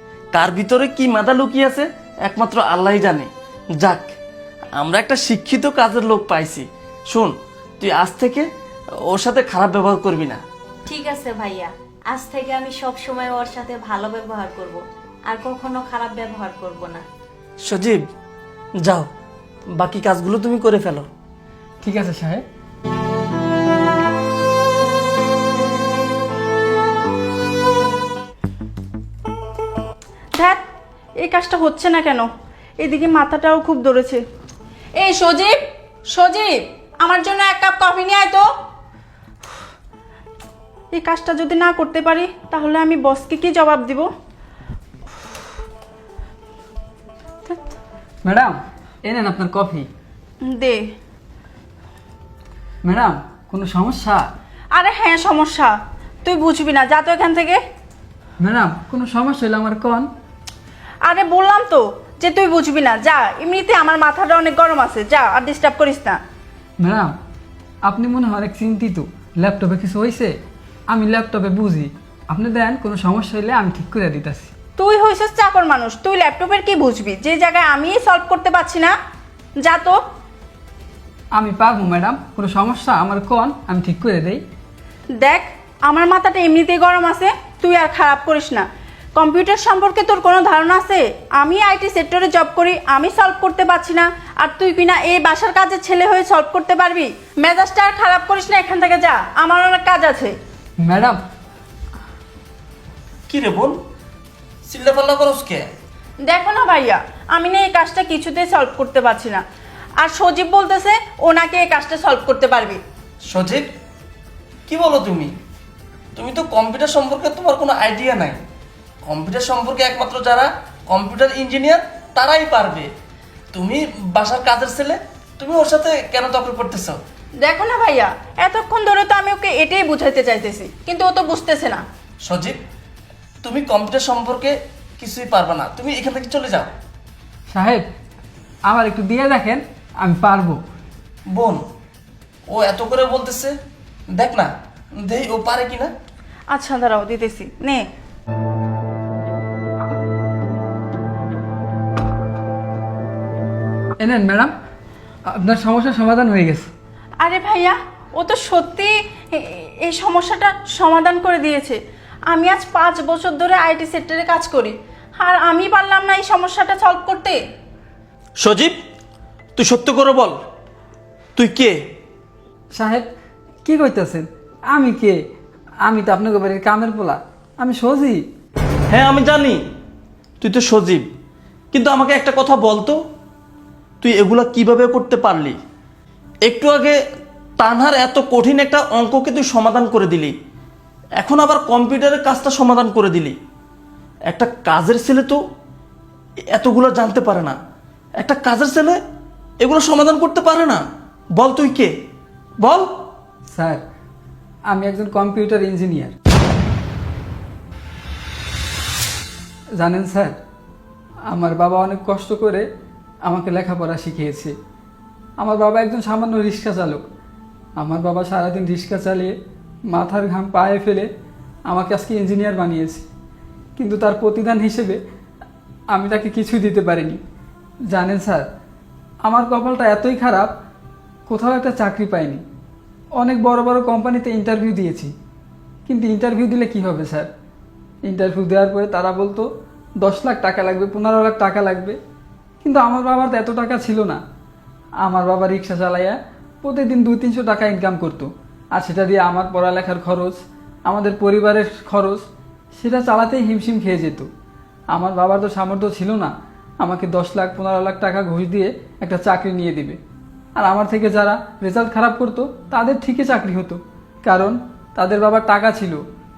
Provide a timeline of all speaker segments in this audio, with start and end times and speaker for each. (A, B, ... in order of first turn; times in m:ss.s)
0:00.3-0:04.2 A
0:04.8-0:08.5 A
0:09.1-0:10.4 A
0:10.9-0:17.1 B
0:17.6-0:18.0 A
0:19.8-0:21.1 A
0:21.8-0:22.4 C
0:31.2-0:32.3 D
0:32.8-0:34.2 D
0:35.0-0:35.6 D
0:36.1-0:38.5 D
0:40.9-0:44.1 D
0:48.2-0:49.9 C
0:50.5-0:50.9 D
0:52.8-0:54.3 C
0:54.8-0:55.7 D
0:56.2-0:57.6 D
0:58.4-1:00.1 C
1:01.0-1:06.2 D
1:06.8-1:07.1 C
1:07.9-1:10.3 C
1:10.9-1:14.5 C
1:14.8-1:19.0 D
1:19.6-1:20.0 D
1:21.4-1:24.4 C
1:25.2-1:40.4 D
1:40.8-1:41.2 C
1:43.3-1:43.8 A
1:44.6-1:45.7 A
1:46.2-1:49.4 D
1:50.0-1:52.8 D
1:53.3-1:53.7 A
1:54.7-1:55.3 A
1:56.2-1:58.4 A
1:59.1-2:02.9 A
2:03.5-2:07.0 A
2:07.4-2:11.8 D
2:12.2-2:12.6 A
2:13.4-2:16.7 A
2:17.5-2:17.8 C
2:18.7-2:20.6 C
2:21.3-2:21.6 A
2:22.5-2:23.6 A
2:24.1-2:25.9 A
2:26.5-2:27.8 D
2:34.0-2:34.5 C
2:35.3-2:36.7 C
2:37.2-2:47.4 D
2:48.4-2:48.8 A
2:49.6-2:50.4 A
2:51.4-2:51.8 A
2:52.8-2:53.1 C
2:53.6-2:55.2 C
2:55.9-2:58.2 C
2:58.9-2:59.6 A
3:00.4-3:01.1 A
3:01.7-3:03.0 A
3:04.0-3:05.6 A
3:06.4-3:07.0 A
3:07.6-3:10.3 A
3:11.2-3:13.4 A
3:14.3-3:15.4 A
3:16.5-3:17.6 A
3:18.2-3:19.0 A
3:19.6-3:20.8 A
3:21.4-3:21.9 A
3:22.6-3:22.9 A
3:23.5-3:23.8 C
3:24.7-3:26.1 C
3:29.8-3:30.4 C
3:31.3-3:32.6 C
3:33.3-3:34.5 C
3:35.4-3:37.0 C
3:37.8-3:39.4 C
3:39.9-3:41.1 C
3:41.7-3:43.0 C
3:43.8-3:45.0 C
3:45.9-3:47.2 C
3:47.9-3:48.5 C
3:49.2-3:50.5 C
3:51.3-3:52.4 C
3:53.2-3:55.1 C
3:55.9-3:57.3 C
3:58.0-3:59.5 C
4:00.0-4:02.0 C
4:02.6-4:04.2 C
4:05.0-4:12.2 C
4:12.8-4:14.3 C
4:14.9-4:20.0 C
4:20.6-4:26.0 C